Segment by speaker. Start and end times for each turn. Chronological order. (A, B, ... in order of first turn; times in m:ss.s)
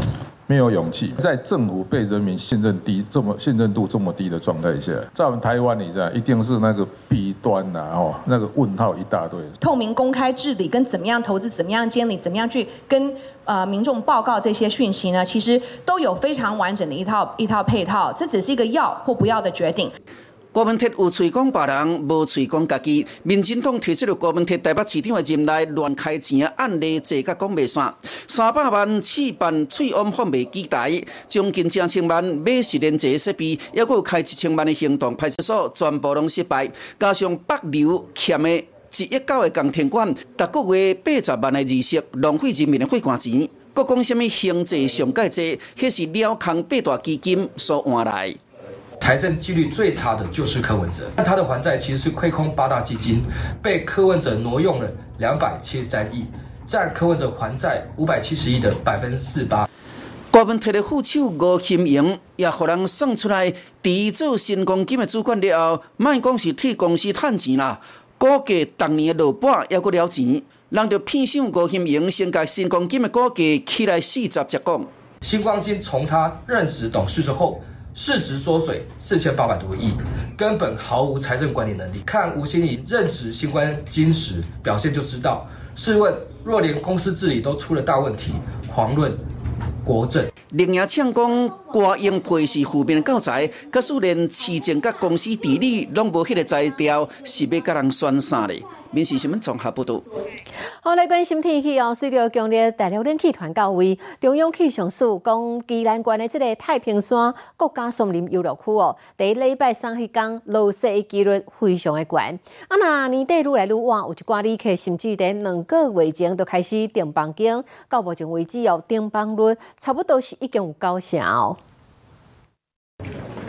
0:00.5-0:09.5 A
0:09.6-0:19.9 B
0:20.5-0:48.4 C
0:49.0-0:59.6 D
1:00.3-1:14.9 C
1:15.2-1:29.2 D
1:29.8-1:30.3 D
1:30.5-1:40.0 C
1:40.8-2:01.6 E